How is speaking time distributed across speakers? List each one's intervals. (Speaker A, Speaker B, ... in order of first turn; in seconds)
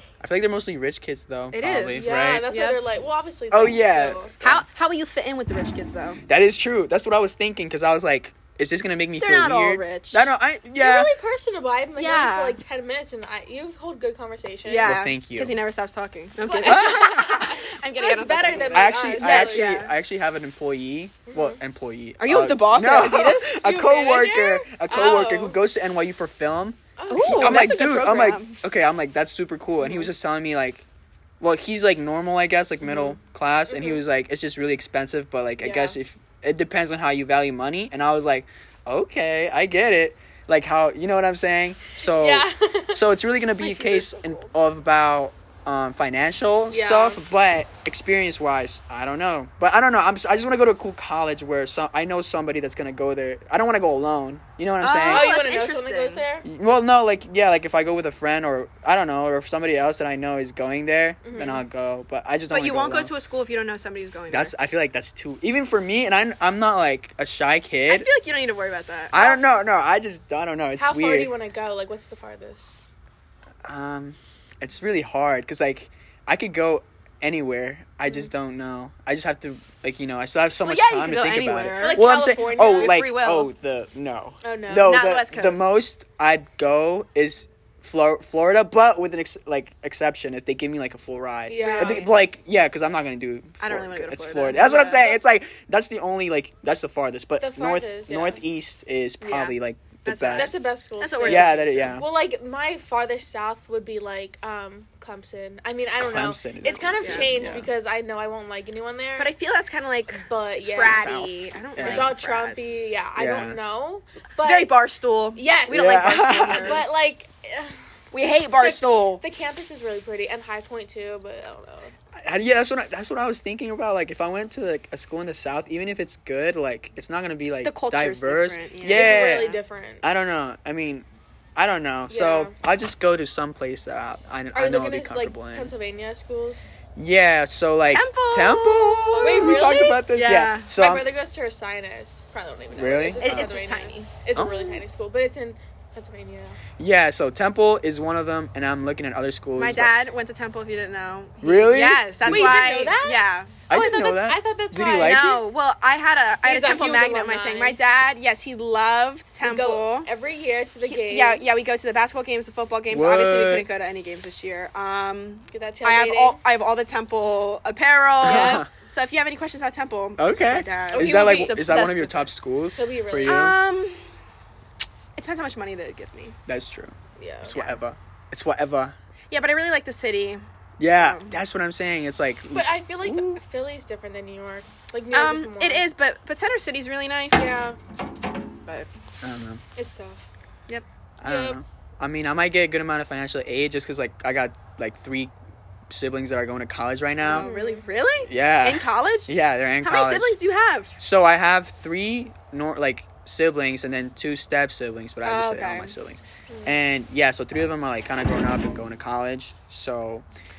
Speaker A: 0.2-2.5, 3.5-4.7, 6.3-11.1, 14.8-15.6, 16.6-17.5, 18.7-30.9, 31.4-55.3, 56.5-63.1, 64.3-68.1, 69.1-71.3, 73.6-100.5, 101.2-102.0, 106.0-107.7, 110.6-112.1, 113.2-113.6, 115.7-116.8, 122.2-129.5, 130.0-135.7, 137.0-141.1, 142.7-143.5, 144.3-144.8, 146.8-149.9, 151.4-152.9, 153.7-155.4, 162.9-163.7, 168.2-168.7, 170.2-173.6, 176.5-179.0, 180.8-183.3, 189.2-189.6, 191.2-195.3, 195.9-197.5, 198.3-200.3, 201.0-210.3
Speaker B: 1.5-2.8, 4.4-6.2, 9.2-10.3, 12.0-12.6, 14.7-19.9, 22.2-23.6, 27.1-28.6, 32.9-33.2, 43.6-44.4, 54.8-56.2, 62.5-64.5, 67.9-69.2, 80.7-82.1, 82.7-83.5, 84.8-85.8, 91.6-92.2, 93.6-95.1, 99.2-101.9, 106.7-107.4, 109.2-112.6, 114.4-116.8, 118.1-119.2, 127.6-129.6, 137.9-140.7, 143.2-144.1, 149.6-153.5, 155.0-160.1, 160.8-172.3, 173.2-174.0, 175.2-176.4, 177.5-177.7, 179.3-181.3, 185.1-187.5, 197.2-200.9, 205.2-205.9
Speaker C: 2.0-4.3, 10.8-14.9, 16.4-19.8, 21.3-21.6, 23.5-25.6, 27.0-27.7, 33.7-34.0, 35.6-36.0, 42.0-43.0, 46.7-47.2, 55.0-56.5, 61.2-61.6, 69.2-69.4, 70.8-72.8, 81.8-83.0, 84.4-85.0, 91.5-92.1, 94.5-95.2, 97.4-98.4, 100.3-109.3, 110.2-111.1, 111.8-114.7, 115.4-117.8, 118.6-121.9, 128.9-130.0, 132.1-132.5, 134.5-136.6, 139.2-146.6, 152.2-155.4, 156.4-157.8, 159.4-161.6, 165.5-166.4, 168.3-168.6, 170.9-171.8, 172.8-173.5, 177.2-177.6, 182.5-185.9, 187.3-187.8, 189.8-190.3, 191.2-191.6, 197.3-197.8, 206.5-206.8